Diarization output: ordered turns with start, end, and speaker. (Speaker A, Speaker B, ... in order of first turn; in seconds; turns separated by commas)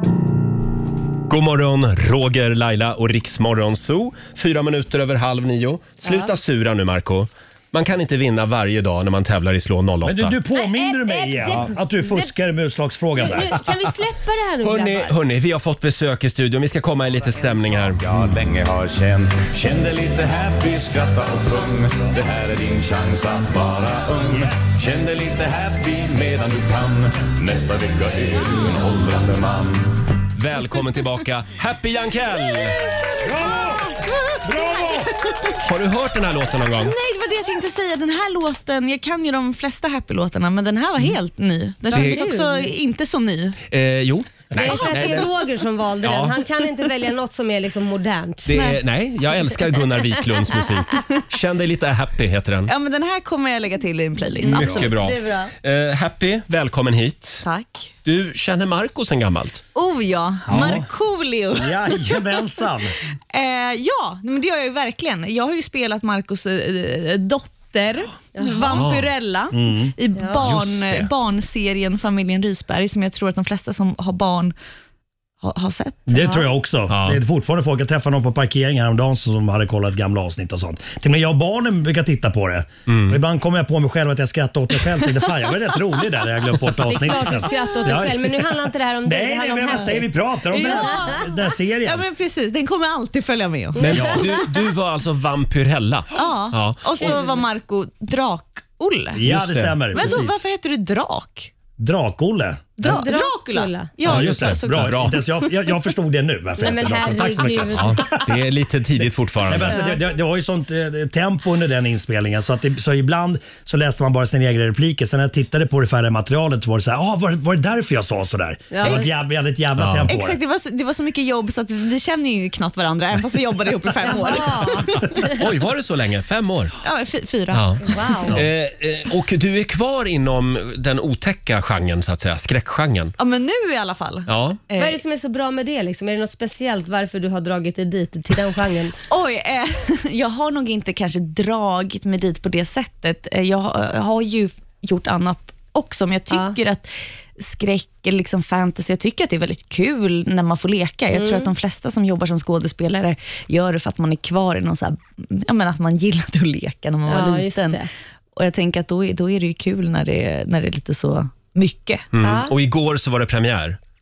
Speaker A: 1.3-10.3, Speaker B: 10.0-13.5, Speaker C: 13.2-15.1, Speaker A: 14.6-18.2, Speaker D: 18.0-29.9, Speaker A: 30.3-32.8, Speaker B: 33.2-35.1, Speaker E: 34.0-35.1, Speaker A: 35.6-37.0, Speaker E: 36.8-43.6, Speaker C: 41.9-42.7, Speaker A: 41.9-42.2, Speaker A: 43.7-45.3, Speaker C: 44.5-48.6, Speaker A: 46.0-46.4, Speaker A: 48.5-52.7, Speaker E: 48.5-48.8, Speaker E: 52.7-55.0, Speaker C: 54.4-55.5, Speaker A: 54.4-57.5, Speaker E: 57.4-57.9, Speaker A: 58.0-59.6, Speaker E: 59.7-62.2, Speaker B: 60.5-60.9, Speaker B: 61.5-62.9, Speaker E: 63.3-74.5, Speaker A: 68.6-69.1, Speaker B: 69.5-69.9, Speaker A: 70.4-71.1, Speaker E: 75.4-76.0, Speaker B: 76.1-88.5, Speaker C: 76.2-76.4, Speaker A: 76.9-77.2, Speaker A: 82.9-83.2, Speaker C: 86.8-90.1, Speaker B: 89.0-92.0, Speaker E: 90.5-91.3, Speaker E: 91.8-94.1, Speaker C: 93.8-94.3, Speaker A: 93.8-96.9, Speaker B: 93.9-94.2, Speaker E: 96.1-99.3, Speaker C: 97.0-97.4, Speaker B: 99.1-100.4, Speaker A: 99.2-100.0, Speaker E: 99.9-101.5, Speaker B: 101.8-103.0, Speaker E: 102.8-104.9, Speaker C: 102.8-103.9, Speaker B: 104.0-108.3, Speaker A: 104.0-105.2, Speaker C: 106.6-108.0, Speaker A: 107.7-109.8, Speaker B: 109.4-120.4, Speaker C: 109.7-110.0, Speaker C: 118.7-119.1, Speaker E: 118.8-119.1, Speaker A: 119.8-120.1, Speaker E: 120.0-125.3, Speaker C: 124.0-125.4, Speaker A: 125.3-126.7, Speaker E: 126.8-127.8, Speaker A: 127.5-133.2, Speaker C: 127.8-128.4, Speaker E: 133.2-135.0, Speaker A: 134.3-134.6, Speaker C: 134.8-138.9, Speaker E: 139.1-157.8, Speaker C: 146.3-146.6, Speaker C: 151.1-151.5, Speaker C: 157.1-157.9, Speaker E: 158.4-162.1, Speaker A: 162.1-163.8, Speaker C: 162.2-162.5